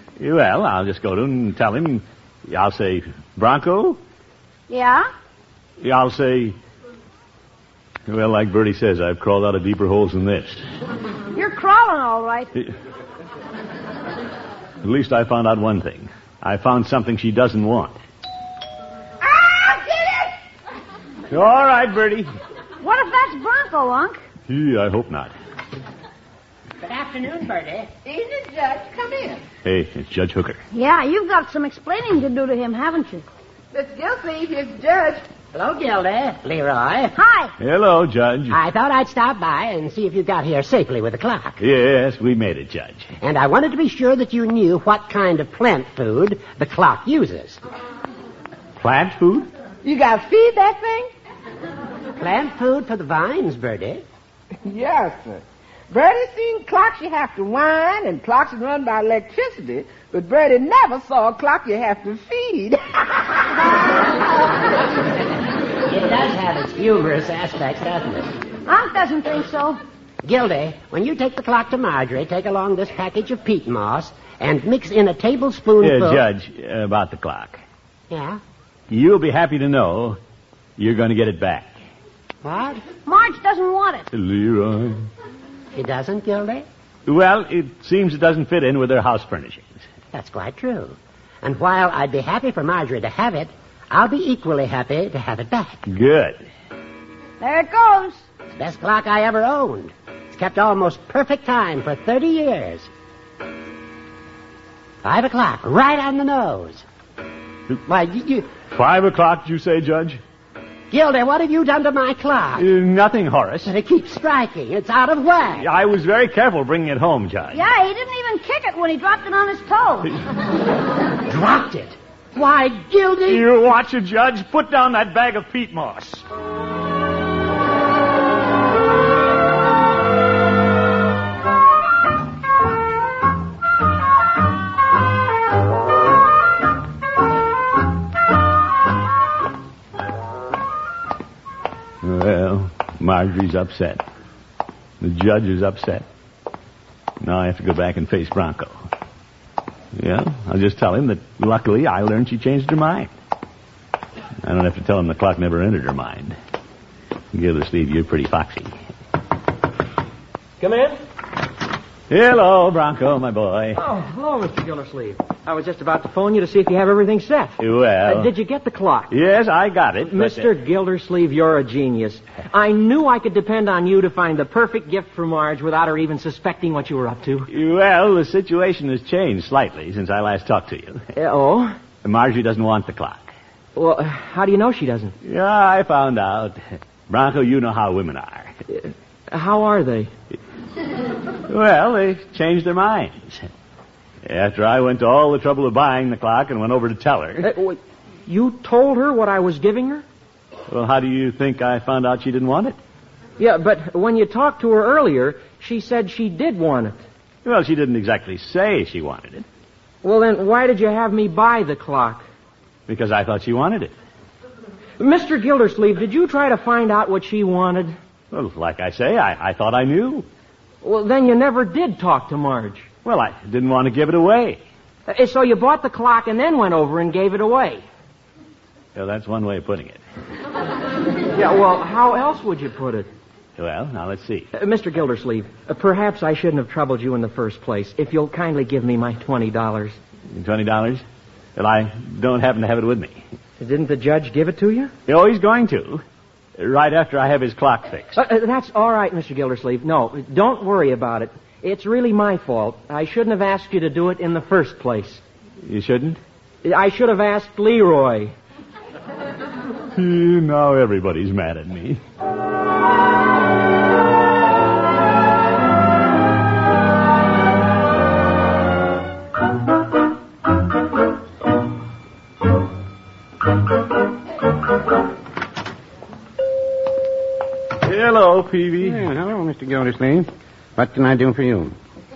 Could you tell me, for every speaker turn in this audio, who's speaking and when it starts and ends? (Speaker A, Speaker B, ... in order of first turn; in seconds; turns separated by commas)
Speaker A: 0.2-4.0, Speaker B: 4.7-5.1, Speaker A: 5.8-6.6, Speaker A: 8.1-10.6, Speaker B: 11.3-12.5, Speaker A: 14.8-18.0, Speaker C: 19.2-20.4, Speaker A: 21.3-22.3, Speaker B: 22.8-24.2, Speaker A: 24.5-25.3, Speaker D: 26.8-27.9, Speaker C: 28.1-29.4, Speaker A: 29.6-30.6, Speaker B: 30.7-33.3, Speaker C: 33.7-35.2, Speaker D: 35.5-37.2, Speaker B: 37.2-37.5, Speaker A: 37.6-38.6, Speaker D: 38.5-41.6, Speaker A: 41.6-43.1, Speaker D: 43.2-47.6, Speaker A: 48.8-49.5, Speaker C: 49.8-51.1, Speaker D: 52.2-54.0, Speaker C: 54.6-63.5, Speaker D: 65.9-68.3, Speaker B: 68.7-69.8, Speaker D: 70.2-76.2, Speaker A: 75.8-77.6, Speaker D: 78.1-78.4, Speaker A: 78.9-80.2, Speaker A: 80.8-81.8, Speaker D: 82.4-82.8, Speaker B: 83.1-84.1, Speaker A: 84.1-85.1, Speaker D: 85.7-86.7, Speaker A: 87.1-89.8, Speaker D: 90.1-95.8, Speaker A: 95.9-96.4, Speaker B: 97.4-98.2, Speaker D: 98.5-102.9, Speaker D: 105.0-106.8, Speaker D: 107.7-108.5, Speaker A: 108.7-110.2, Speaker D: 110.9-112.7, Speaker A: 112.6-113.7, Speaker D: 113.7-115.7, Speaker A: 115.6-117.6, Speaker B: 117.5-120.1, Speaker D: 121.3-123.5, Speaker A: 123.3-126.3, Speaker A: 142.0-144.1, Speaker A: 145.0-146.1, Speaker A: 147.2-148.8, Speaker A: 150.0-153.1, Speaker A: 154.4-156.4, Speaker A: 157.3-158.8, Speaker E: 160.6-161.0, Speaker A: 162.1-163.8, Speaker E: 163.8-169.1, Speaker A: 167.6-168.3, Speaker A: 169.1-170.5, Speaker E: 170.1-177.5, Speaker A: 177.5-181.1, Speaker E: 181.2-181.8, Speaker A: 182.0-183.3, Speaker E: 183.8-185.2, Speaker A: 185.2-188.6, Speaker E: 188.7-190.1, Speaker A: 191.5-193.5, Speaker A: 194.3-197.5, Speaker E: 197.4-200.1, Speaker A: 200.7-202.8, Speaker E: 203.4-207.0, Speaker A: 207.4-209.5, Speaker E: 210.0-212.2, Speaker A: 212.9-213.9, Speaker E: 215.0-218.0, Speaker A: 218.3-220.3, Speaker E: 220.8-222.9, Speaker A: 223.1-224.6, Speaker E: 225.1-227.8, Speaker A: 228.9-230.0, Speaker E: 231.3-233.1, Speaker A: 233.6-234.5, Speaker E: 234.5-240.0, Speaker A: 240.3-241.0, Speaker A: 241.6-243.2, Speaker E: 243.6-244.9, Speaker A: 245.1-246.0, Speaker A: 246.6-248.2, Speaker E: 248.2-255.2, Speaker A: 255.6-256.2, Speaker E: 256.6-258.3, Speaker A: 259.9-262.0, Speaker A: 277.8-279.0, Speaker F: 278.8-281.8